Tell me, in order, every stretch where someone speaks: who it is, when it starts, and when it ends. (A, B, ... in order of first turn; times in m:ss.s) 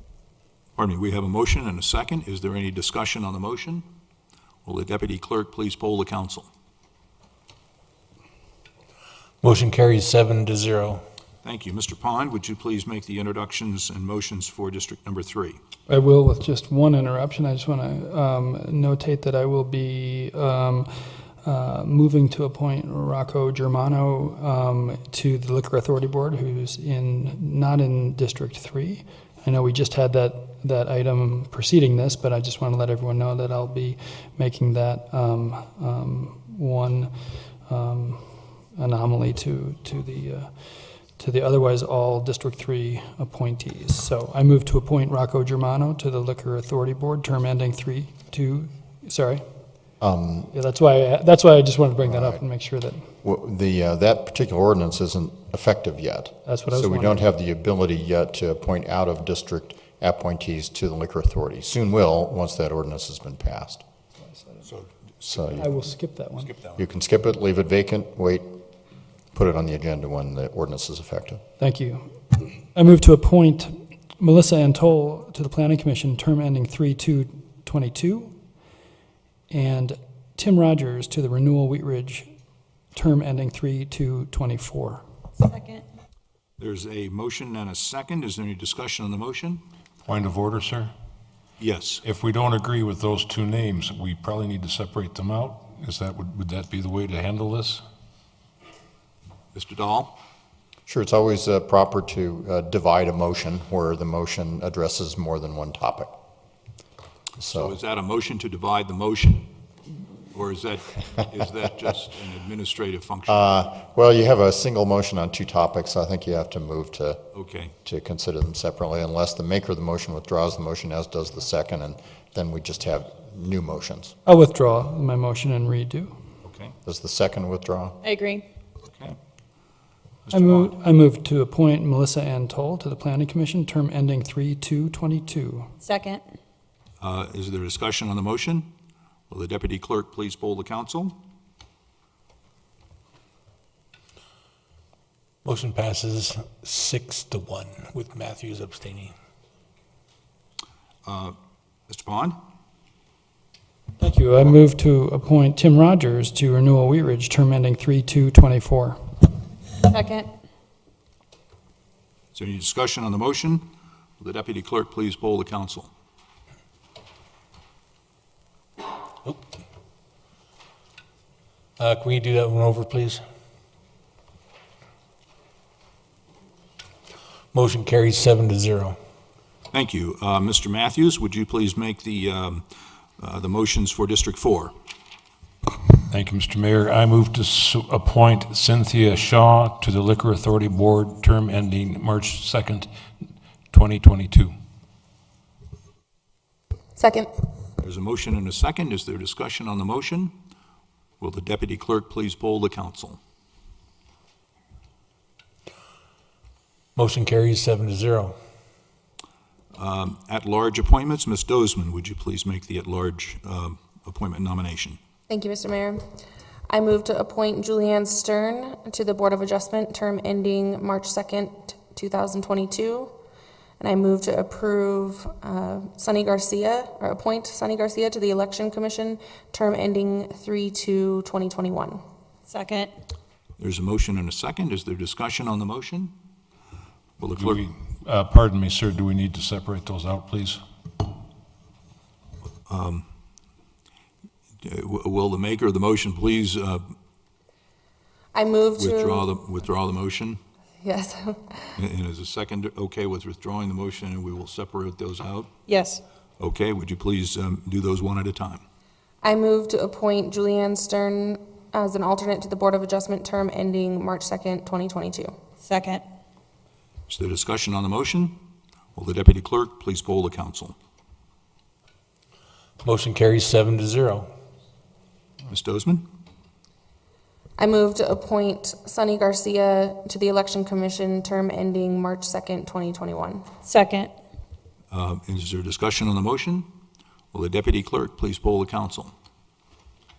0:00.8-0:03.8 A
0:04.6-0:06.5 A
0:09.4-0:11.0 B
0:11.4-0:15.6 A
0:15.9-0:40.5 C
0:41.1-0:49.4 C
0:50.0-0:50.5 D
0:50.5-0:53.1 C
0:52.0-0:52.4 D
0:53.2-1:03.8 D
0:56.5-0:57.3 C
1:04.4-1:04.6 C
1:04.7-1:05.5 A
1:05.2-1:05.7 D
1:05.6-1:06.5 C
1:06.4-1:06.8 A
1:06.8-1:08.5 D
1:09.3-1:11.4 D
1:11.6-1:18.3 C
1:19.5-1:22.3 C
1:22.9-1:25.0 C
1:25.4-1:25.8 E
1:26.6-1:29.6 A
1:30.0-1:30.9 F
1:31.6-1:32.0 A
1:32.0-1:37.8 F
1:39.6-1:40.1 A
1:40.9-1:46.1 D
1:47.4-1:47.8 D
1:47.4-1:49.5 A
1:50.3-1:53.5 A
1:53.3-1:57.2 D
1:57.3-1:57.7 A
1:57.8-2:04.2 D
2:04.2-2:06.1 C
2:06.4-2:06.7 A
2:06.8-2:08.0 D
2:08.0-2:08.4 E
2:08.9-2:09.2 A
2:10.3-2:10.7 A
2:10.3-2:15.7 C
2:15.8-2:16.2 E
2:17.0-2:18.7 A
2:19.3-2:21.2 A
2:25.4-2:29.1 B
2:31.0-2:31.4 A
2:31.9-2:32.4 A
2:34.0-2:39.1 C
2:39.9-2:40.3 E
2:42.4-2:43.6 A
2:44.2-2:45.9 A
2:51.8-2:53.2 B
2:57.5-2:59.0 B
2:59.7-3:02.6 A
3:03.2-3:04.7 A
3:06.1-3:12.9 F
3:13.7-3:14.6 F
3:17.0-3:17.3 G
3:17.8-3:20.3 A
3:21.2-3:23.2 A
3:27.0-3:28.4 B
3:29.8-3:35.0 A
3:35.3-3:36.0 G
3:36.7-3:43.1 G
3:43.8-3:52.0 G
3:52.5-3:52.9 E
3:53.6-3:56.1 A
3:57.2-3:57.6 A
3:57.3-4:00.6 F
4:02.7-4:03.0 A
4:04.6-4:06.9 A
4:08.3-4:09.3 G
4:08.8-4:10.4 A
4:10.8-4:11.7 G
4:11.8-4:15.5 A
4:15.7-4:16.0 E
4:16.4-4:18.6 A
4:19.2-4:25.3 G
4:25.6-4:26.0 E
4:27.1-4:28.4 A
4:29.0-4:30.8 A
4:32.8-4:34.3 B
4:35.5-4:36.0 A
4:37.6-4:43.5 G
4:43.6-4:44.1 E
4:44.9-4:46.7 A
4:47.3-4:49.1 A